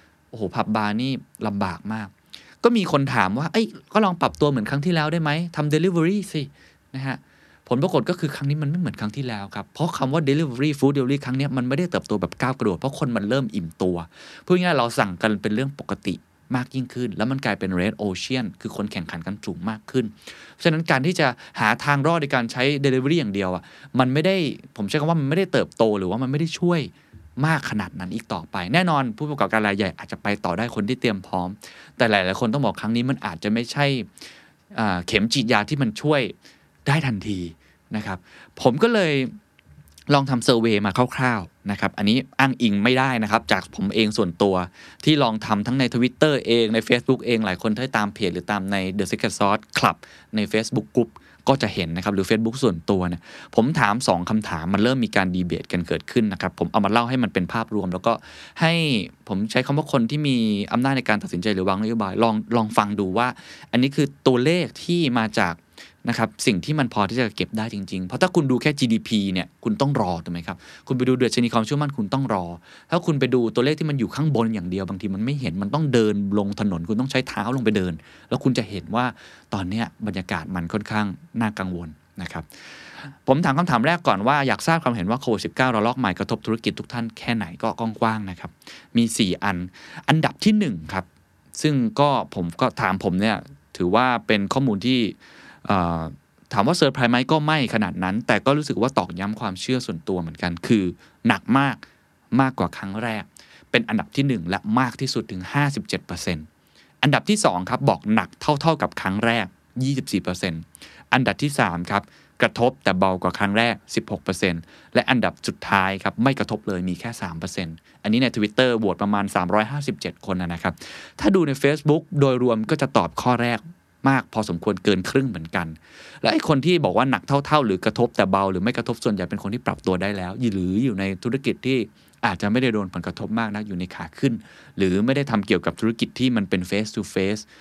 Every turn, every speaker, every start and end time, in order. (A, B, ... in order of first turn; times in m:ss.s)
0:00.3-0:34.1 A
0:34.7-0:36.3 A
0:36.8-0:39.3 A
0:40.1-1:22.5 A
1:23.0-1:41.8 A
1:42.3-1:46.5 A
1:47.0-2:17.4 A